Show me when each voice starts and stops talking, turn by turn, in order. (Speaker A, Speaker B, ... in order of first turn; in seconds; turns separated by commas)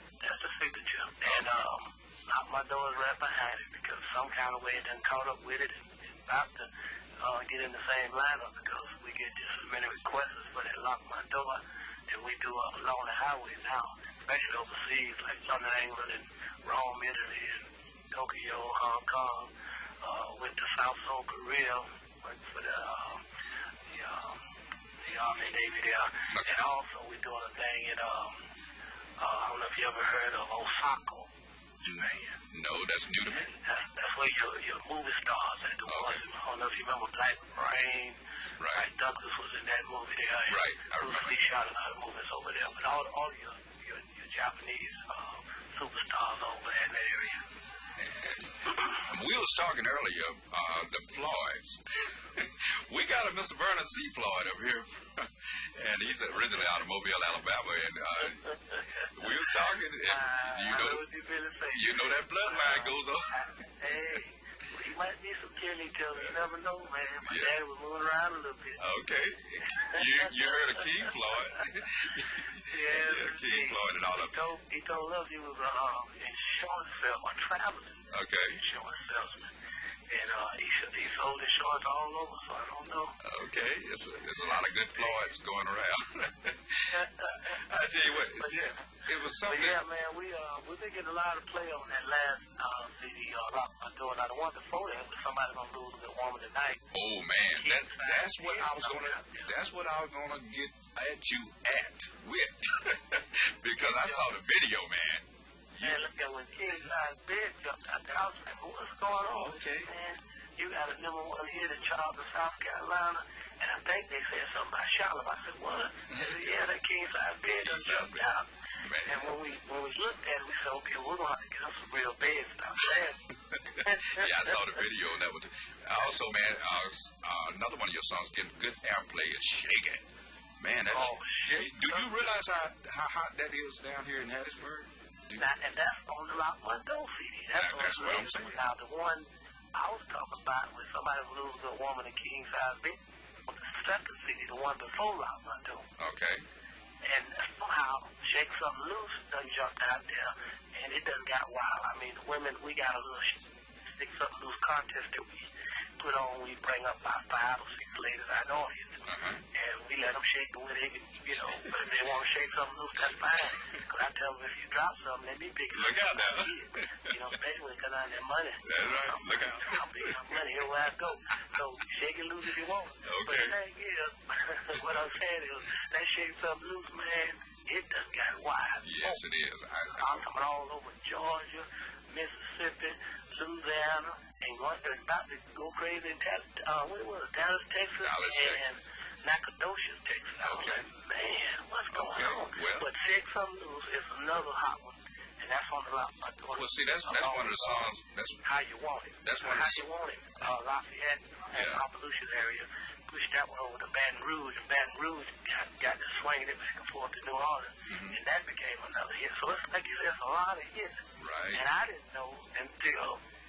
Speaker A: 0.2-23.2, Speaker A: 23.9-24.4, Speaker A: 25.0-28.5, Speaker A: 29.2-31.3, Speaker A: 31.8-32.3, Speaker B: 31.8-33.5, Speaker A: 33.2-38.2, Speaker B: 35.9-36.2, Speaker B: 38.6-38.9, Speaker A: 38.7-47.4, Speaker B: 40.5-41.4, Speaker B: 48.0-58.5, Speaker A: 58.2-68.8, Speaker B: 59.1-61.0, Speaker B: 61.7-63.5, Speaker B: 67.2-67.5, Speaker B: 68.8-74.3, Speaker A: 69.6-71.4, Speaker A: 72.6-79.5, Speaker B: 78.1-78.6, Speaker A: 80.1-83.2, Speaker B: 83.2-89.8, Speaker A: 84.9-85.3, Speaker A: 86.9-96.8, Speaker B: 96.9-106.0, Speaker A: 97.5-99.5, Speaker A: 103.8-104.3, Speaker A: 105.8-118.5, Speaker B: 109.3-109.9, Speaker B: 117.6-118.3, Speaker B: 118.8-119.3, Speaker A: 119.0-123.3, Speaker B: 123.5-130.1, Speaker A: 123.8-124.5, Speaker B: 130.6-135.4, Speaker A: 130.9-132.3, Speaker A: 135.4-145.9, Speaker B: 137.5-138.7, Speaker B: 146.0-146.4, Speaker A: 147.0-179.2, Speaker B: 159.1-159.4, Speaker B: 163.5-163.8, Speaker B: 165.7-167.2, Speaker B: 168.7-170.4, Speaker B: 173.0-173.6, Speaker B: 178.8-180.3, Speaker A: 179.9-197.9, Speaker B: 188.0-188.6, Speaker B: 190.4-190.9, Speaker B: 191.9-192.9, Speaker B: 196.6-198.4, Speaker A: 198.4-211.0, Speaker B: 199.2-199.8, Speaker B: 201.5-201.8, Speaker B: 207.9-208.2, Speaker B: 211.2-211.6, Speaker A: 211.5-213.2